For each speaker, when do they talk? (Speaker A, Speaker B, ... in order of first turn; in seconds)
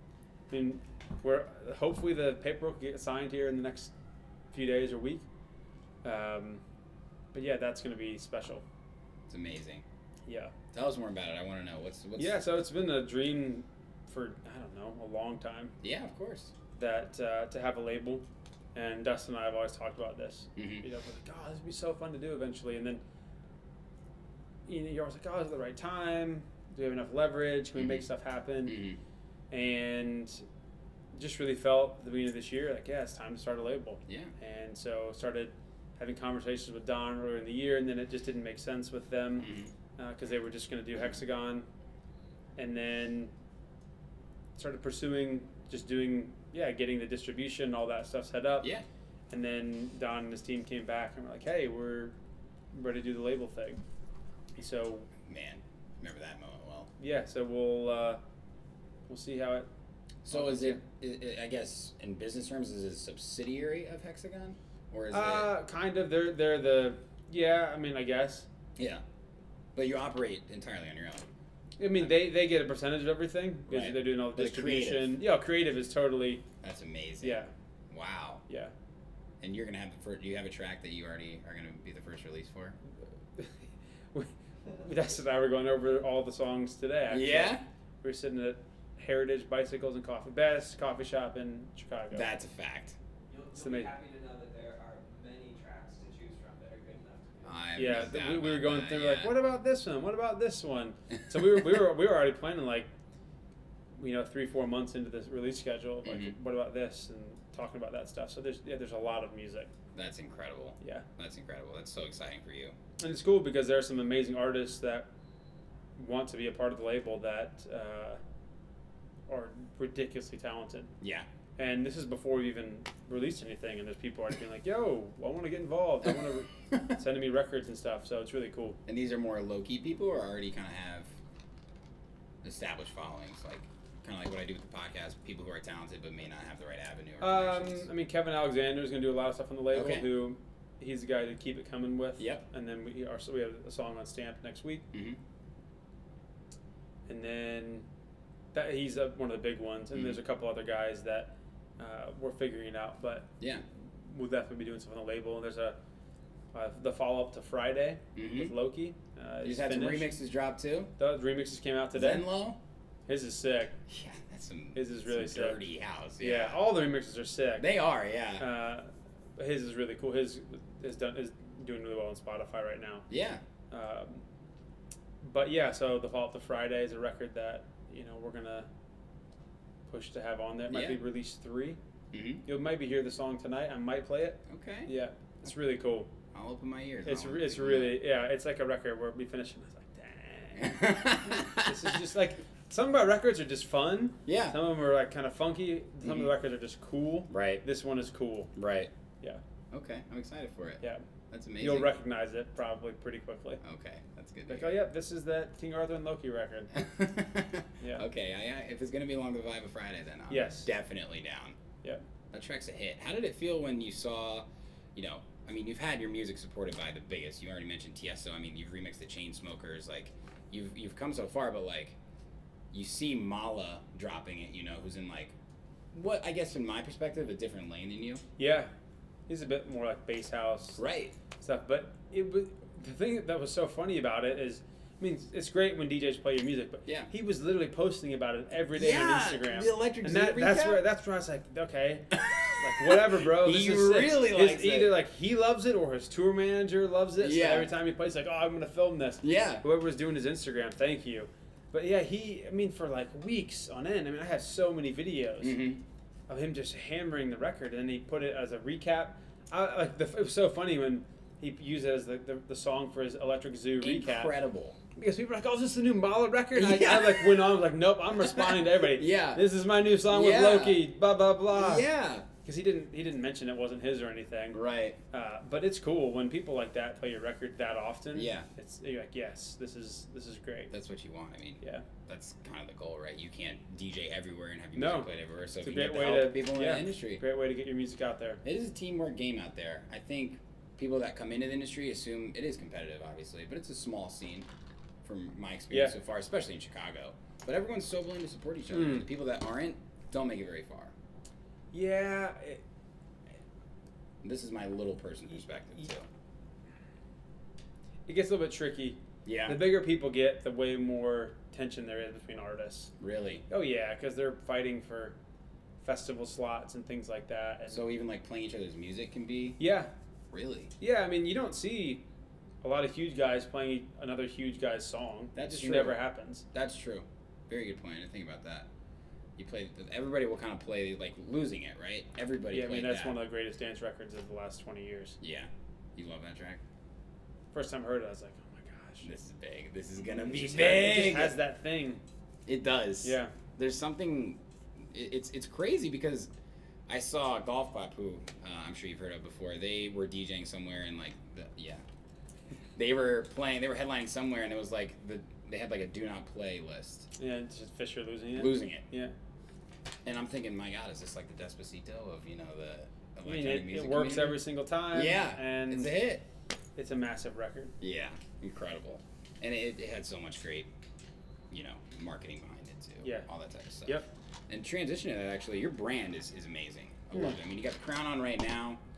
Speaker A: 0.5-3.9, 4.5-5.2, 6.0-6.6, 7.3-8.6, 10.3-10.5, 12.2-15.7, 16.8-18.2, 18.7-23.0, 24.7-28.8, 29.5-30.4, 31.1-41.7, 42.6-43.3, 44.5-48.7, 49.3-52.1, 52.7-53.8, 54.5-55.1, 57.0-58.2, 59.1-59.7, 60.3-60.8, 65.1-68.5, 71.8-76.4, 77.2-77.5, 84.1-92.3, 93.5-93.9, 97.7-102.9, 104.0-109.7, 113.0-115.1, 116.0-118.2, 119.3-120.9, 121.6-128.8, 137.2-144.8, 147.1-147.9, 148.5-153.3, 154.0-155.8, 156.5-160.1, 161.0-162.3, 163.1-163.7, 164.7-165.6, 166.2-167.7, 168.4-173.0, 173.7-174.2, 175.2-178.7, 179.9-181.8, 182.4-186.1, 187.1-198.5, 201.6-203.6, 204.5-206.7, 210.3-210.7, 228.4-228.7, 229.3-230.8, 231.4-242.1, 242.6-255.6, 256.3-264.3, 264.9-271.9, 272.4-274.6, 275.1-280.7, 284.7-285.1, 285.6-288.4, 295.7-295.9, 298.7-299.1, 301.7-302.6, 308.1-312.9, 313.5-315.1, 315.8-317.8, 319.6-319.9, 320.8-322.0, 322.6-326.4, 332.5-335.2, 337.5-339.1, 340.1-342.0, 343.0-343.3, 357.2-359.1, 363.2-365.9, 366.8-367.7
Speaker B: 9.3-9.8, 10.7-12.4, 15.8-16.5, 20.6-20.8, 27.8-28.1, 28.6-29.0, 34.1-34.3, 39.4-39.7, 55.2-56.9, 60.2-65.5, 68.8-69.0, 69.7-71.2, 71.9-72.2, 73.7-75.2, 76.6-78.4, 79.4-82.8, 87.1-87.6, 92.1-93.0, 97.4-99.3, 106.0-106.3, 109.9-112.8, 121.0-121.3, 128.8-131.1, 132.4-137.9, 139.7-140.1, 142.2-142.4, 144.9-145.2, 149.9-150.2, 158.1-158.5, 159.4-160.9, 161.9-162.6, 163.9-166.6, 167.6-168.5, 173.1-173.4, 180.7-181.0, 182.1-182.4, 184.5-184.9, 186.3-188.0, 190.6-192.0, 194.2-194.6, 196.0-196.3, 197.3-197.6, 198.5-198.9, 199.7-201.9, 203.6-204.8, 206.7-211.6, 212.3-222.0, 222.7-225.3, 225.9-228.2, 230.8-231.1, 238.7-240.8, 242.1-244.9, 247.2-247.7, 249.2-249.6, 255.4-255.8, 263.8-264.8, 266.5-267.5, 268.1-269.4, 270.1-270.9, 271.5-272.3, 274.5-275.0, 278.1-278.5, 280.7-287.2, 288.4-294.5, 295.0-300.9, 304.2-306.1, 309.2-309.6, 313.0-313.4, 317.7-319.6, 320.3-320.7, 325.3-326.0, 326.5-328.7, 329.4-333.2, 335.2-336.6, 339.0-341.4, 342.4-346.3, 346.9-351.8, 352.8-357.1, 358.4-358.8, 360.1-366.2, 367.8-370.7, 371.5-378.8
Speaker C: 93.3-97.7